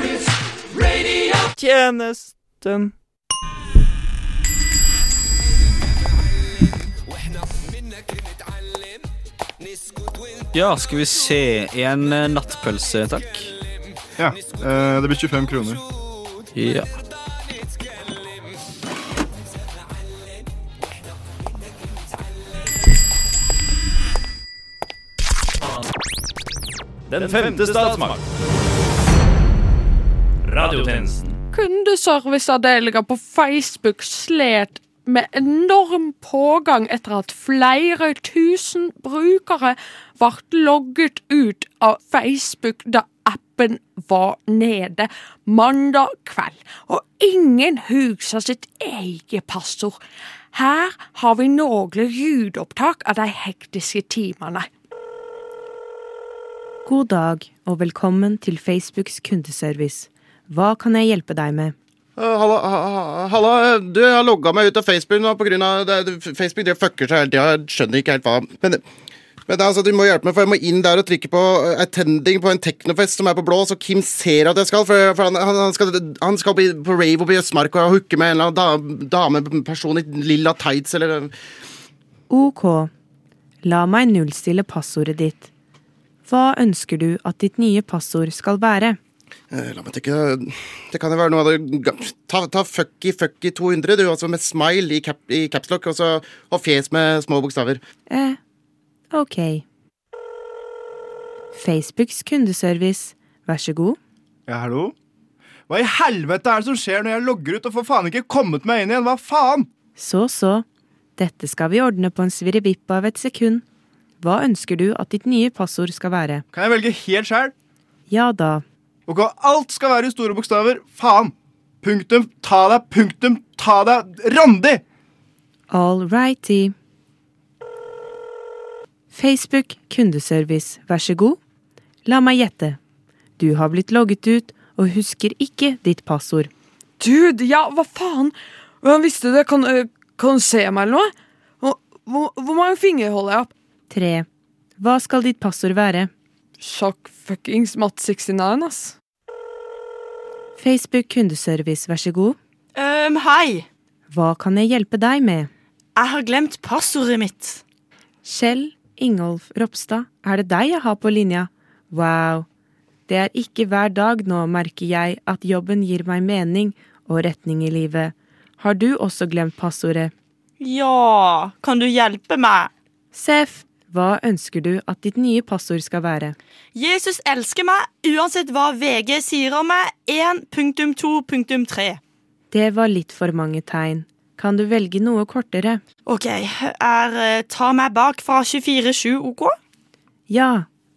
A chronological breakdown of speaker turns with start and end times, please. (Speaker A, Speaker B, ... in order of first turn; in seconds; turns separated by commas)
Speaker A: 1.6-2.9, Speaker A: 10.5-13.5, Speaker B: 14.2-15.8, Speaker A: 16.6-16.9, Speaker C: 27.1-28.2, Speaker B: 27.2-28.1, Speaker C: 30.5-31.3, Speaker D: 31.5-50.0, Speaker D: 50.5-54.7, Speaker E: 56.9-61.8, Speaker F: 62.2-68.9, Speaker F: 69.5-81.4, Speaker E: 82.3-82.9, Speaker E: 83.6-85.5, Speaker E: 86.3-89.0, Speaker F: 89.5-97.8, Speaker E: 98.1-98.4, Speaker E: 99.1-99.6, Speaker E: 101.5-104.0, Speaker B: 104.5-105.0, Speaker B: 105.7-109.7, Speaker E: 110.0-110.7, Speaker E: 111.2-113.6, Speaker E: 114.2-116.5, Speaker B: 116.5-117.5, Speaker E: 118.1-118.7, Speaker B: 119.1-124.8, Speaker E: 125.7-126.8, Speaker E: 129.1-131.4, Speaker E: 132.1-132.8, Speaker E: 133.4-136.5, Speaker D: 137.0-143.5, Speaker E: 143.9-144.3, Speaker E: 144.8-146.1, Speaker D: 146.6-149.0, Speaker E: 150.6-152.4, Speaker G: 152.8-153.7, Speaker E: 154.1-155.5, Speaker G: 156.0-157.6, Speaker E: 158.2-162.5, Speaker E: 163.1-170.1, Speaker G: 170.6-172.7, Speaker E: 173.1-176.4, Speaker G: 176.8-182.0, Speaker E: 182.5-185.8, Speaker G: 186.1-189.6, Speaker E: 190.3-190.7